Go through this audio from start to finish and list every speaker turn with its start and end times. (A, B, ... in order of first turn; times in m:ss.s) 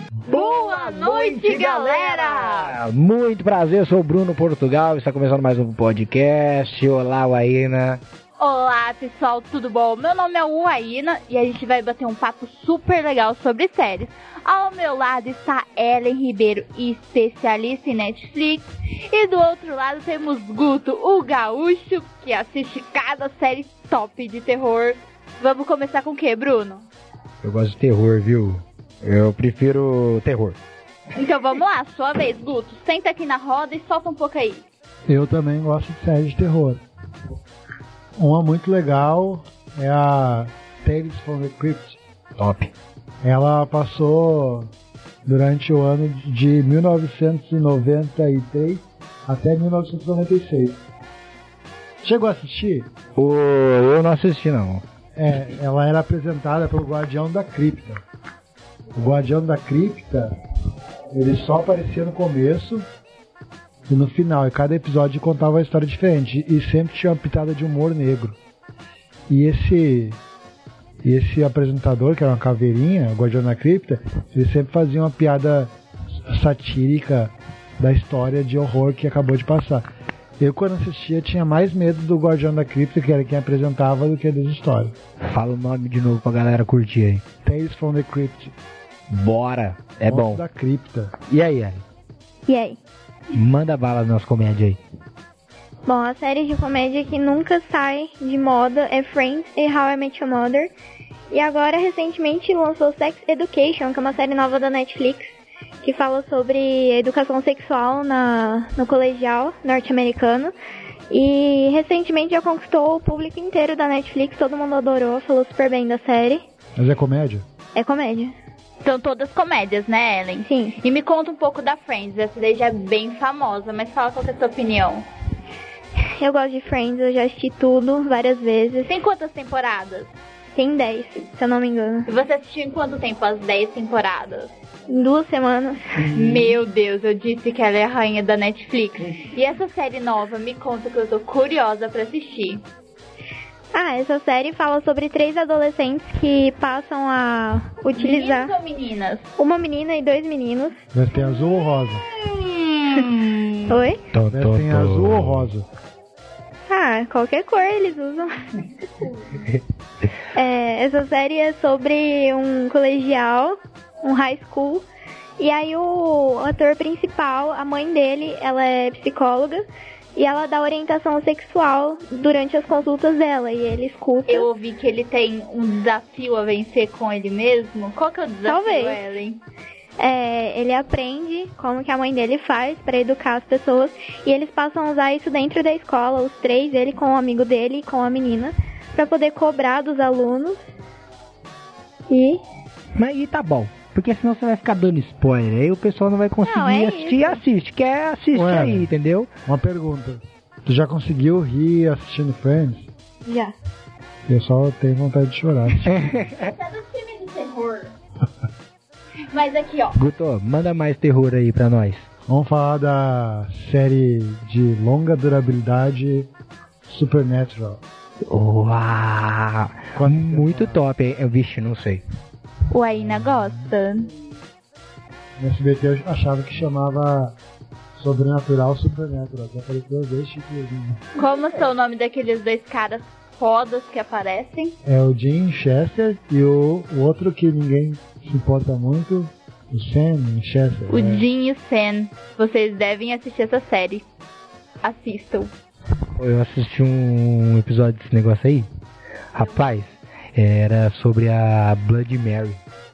0:00.3-0:08.0 A
0:00.3-0:02.8 B
0:08.4-0:26.9 B
0:27.4-0:30.6 A
0:31.2-0:34.6 B
0:35.1-0:36.8 C
0:38.2-0:42.0 C
0:42.4-0:42.7 A
0:43.2-0:44.7 C
0:45.3-0:50.8 C
0:52.0-0:52.9 C
0:53.2-0:54.8 A
0:55.2-0:58.0 C
0:59.0-1:00.3 C
1:01.1-1:02.9 C
1:03.9-1:08.4 C
1:09.3-1:10.2 C
1:11.0-1:15.7 C
1:16.3-1:19.9 C
1:20.4-1:24.9 C
1:25.2-1:27.2 A
1:27.4-1:28.5 C
1:29.1-1:30.4 A
1:30.1-1:31.1 C
1:31.3-1:31.8 A
1:32.5-1:32.8 D
1:33.3-1:34.8 A
1:35.9-1:40.7 D
1:41.3-1:45.3 D
1:45.8-1:50.5 D
1:51.1-1:56.4 D
1:56.8-1:57.4 C
1:57.8-1:58.3 D
1:58.8-2:05.0 B
2:00.4-2:00.8 D
2:06.2-2:09.0 D
2:08.8-2:10.1 B
2:10.6-2:12.1 D
2:12.1-2:14.5 B
2:14.9-2:16.0 D
2:16.0-2:22.6 B
2:23.7-2:28.5 D
2:28.0-2:29.2 B
2:29.4-2:30.8 D
2:30.9-2:32.0 C
2:32.2-2:33.8 B
2:33.7-2:34.0 D
2:34.1-2:35.5 A
2:34.3-2:35.7 C
2:36.7-2:38.3 D
2:40.3-2:44.8 D
2:45.4-2:49.6 D
2:50.2-2:54.5 D
2:54.3-2:59.4 B
2:58.5-2:59.0 D
3:00.0-3:10.6 D
3:12.1-3:12.4 D
3:13.0-3:19.3 A
3:16.4-3:17.4 D
3:18.3-3:18.9 C
3:19.5-3:22.9 C
3:23.3-3:23.5 D
3:24.3-3:26.1 C
3:26.4-3:27.9 B
3:29.3-3:30.0 B
3:30.0-3:32.1 A
3:32.3-3:36.3 C
3:36.9-3:37.8 C
3:38.3-3:42.0 A
3:39.9-3:40.8 C
3:42.7-3:44.1 B
3:43.0-3:43.5 C
3:45.4-3:47.4 C
3:48.0-3:51.0 C
3:51.2-3:54.7 B
3:54.8-4:01.3 C
4:00.9-4:04.0 B
4:04.8-4:05.5 B
4:06.2-4:08.7 A
4:09.3-4:12.6 A